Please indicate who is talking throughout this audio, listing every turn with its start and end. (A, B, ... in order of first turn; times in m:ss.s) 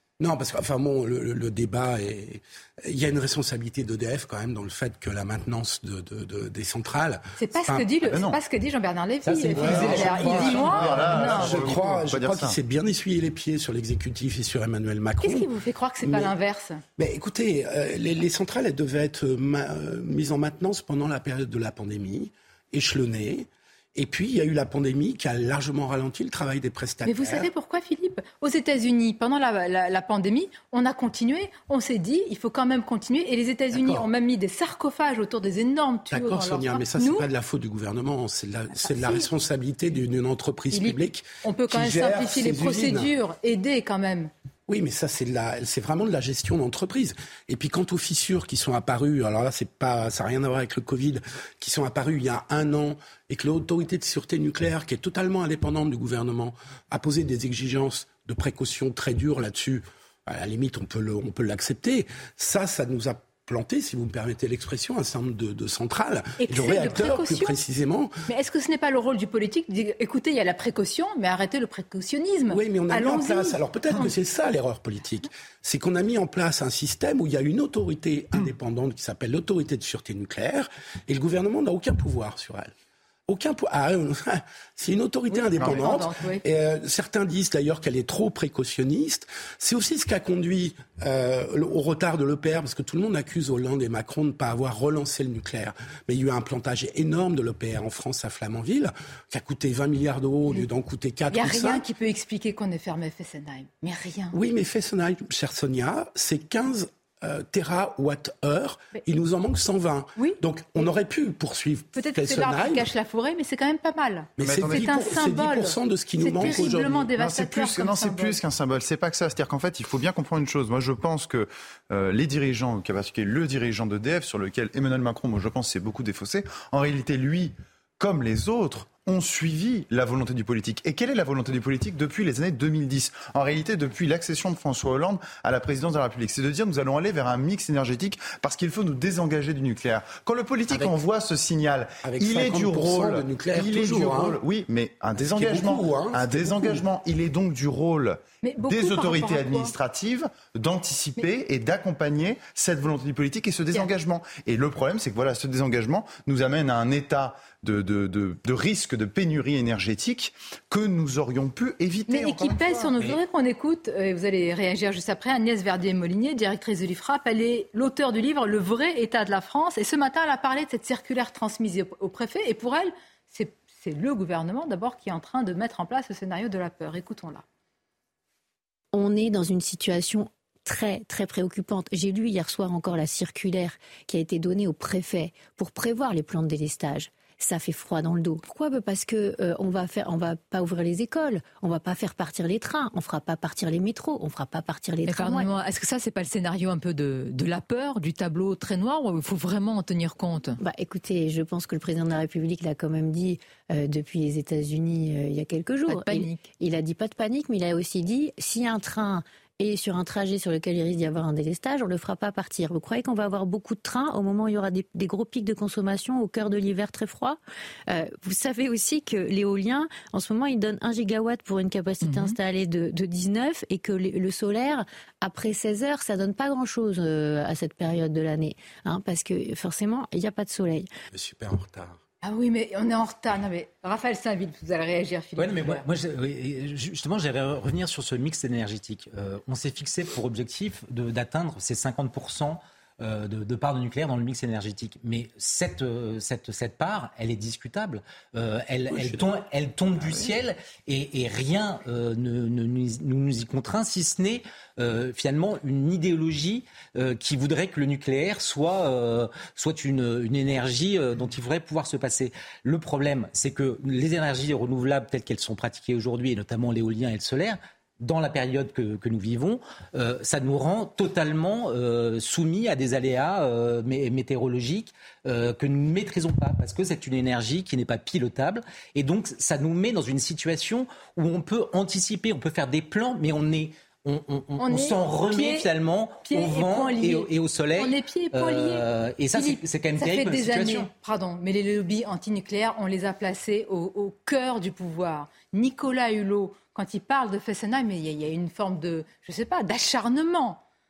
0:00.2-0:07.9 A
0:07.4-0:11.7 B
0:08.0-0:08.4 C
0:09.4-0:15.5 A
0:09.6-0:12.6 C
0:15.2-0:16.8 B
0:16.0-0:16.3 A
0:17.0-0:27.5 A
0:27.0-0:37.2 B
0:33.7-0:34.1 A
0:36.1-0:43.1 A
0:38.8-0:39.2 B
0:40.7-0:44.3 B
0:44.7-1:08.2 A
1:06.4-1:07.6 B
1:08.3-1:14.1 B
1:12.5-1:22.7 A
1:23.3-1:41.8 A
1:25.3-1:26.4 B
1:25.6-1:25.9 C
1:41.3-1:44.4 B
1:44.3-1:52.9 A
1:51.9-1:58.4 B
1:54.4-1:57.1 A
1:54.4-1:54.9 C
1:56.4-2:42.9 C
2:20.7-2:20.9 A
2:22.0-2:24.4 A
2:25.2-2:26.8 A
2:28.4-2:29.7 B
2:42.1-2:57.4 B
2:58.9-3:15.5 D
3:15.1-3:20.6 B
3:20.6-3:50.9 D
3:25.9-3:26.5 B
3:51.1-3:52.0 A
3:52.2-3:55.8 B
3:55.4-4:50.9 E
4:08.9-4:09.4 A
4:44.6-4:45.7 B
4:46.2-5:00.6 B